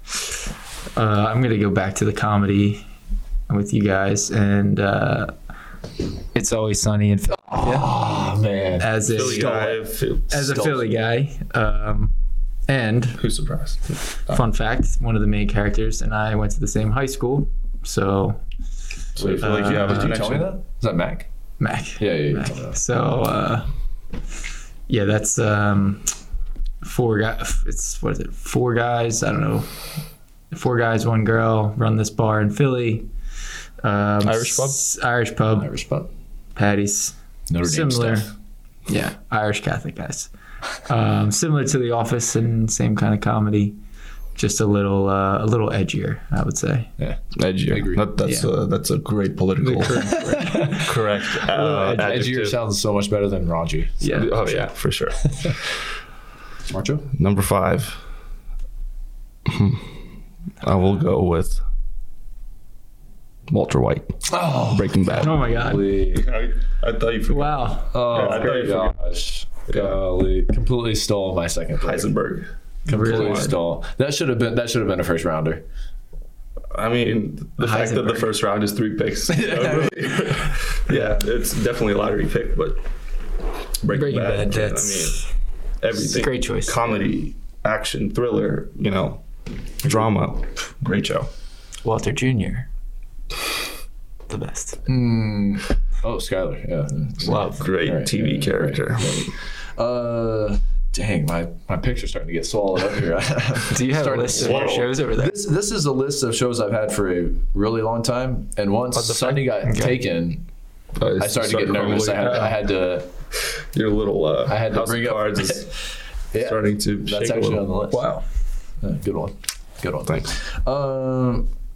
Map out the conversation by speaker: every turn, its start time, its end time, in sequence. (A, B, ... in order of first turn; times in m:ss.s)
0:00.9-0:02.8 A
0:03.5-0:05.3 A
0:06.3-0:07.9 A
0:07.6-0:09.7 B
0:08.8-0:12.1 A
0:09.1-0:10.5 C
0:10.3-0:10.8 B
0:12.7-0:13.2 A
0:13.2-0:14.4 C
0:14.3-0:18.4 A
0:19.2-0:20.5 C
0:19.2-0:21.3 B
0:19.4-0:20.2 A
0:21.6-0:23.7 A
0:22.0-0:22.8 B
0:24.9-0:26.1 A
0:26.8-0:29.7 A
0:30.5-0:33.1 A
0:33.8-0:35.7 A
0:34.2-0:34.8 C
0:35.6-0:36.1 B
0:36.5-0:38.3 A
0:37.5-0:38.3 B
0:38.9-0:40.3 A
0:40.8-0:43.8 A
0:44.4-0:46.9 A
0:47.0-0:48.0 B
0:47.3-0:52.6 C
0:48.2-0:48.5 A
0:49.6-0:50.9 A
0:50.3-0:54.0 B
0:54.0-0:54.6 A
0:54.0-0:55.6 C
0:56.7-0:57.1 B
0:57.1-0:58.0 C
0:59.4-1:00.0 C
1:00.6-1:01.6 C
1:03.5-1:09.0 C
1:04.3-1:06.3 B
1:05.2-1:05.9 A
1:07.3-1:08.1 A
1:07.9-1:12.1 B
1:09.7-1:10.0 C
1:11.8-1:12.5 C
1:12.8-1:13.6 A
1:12.9-1:15.6 B
1:13.0-1:13.5 C
1:16.7-1:22.8 C
1:17.6-1:18.3 A
1:19.3-1:20.7 B
1:23.8-1:25.3 C
1:23.9-1:25.3 A
1:25.8-1:29.2 C
1:25.9-1:26.9 A
1:29.8-1:31.3 C
1:31.8-1:32.7 A
1:34.3-1:34.8 A
1:34.9-1:50.4 B
1:37.2-1:37.6 A
1:37.5-1:39.3 C
1:43.7-1:45.4 A
1:44.3-1:44.9 C
1:49.0-1:49.4 C
1:49.6-1:50.0 A
1:51.0-1:52.6 C
1:51.2-1:53.1 B
1:53.4-1:55.7 C
1:54.5-1:58.2 B
1:56.3-1:57.7 C
1:57.9-1:58.2 A
1:58.8-2:01.5 B
2:00.0-2:00.3 C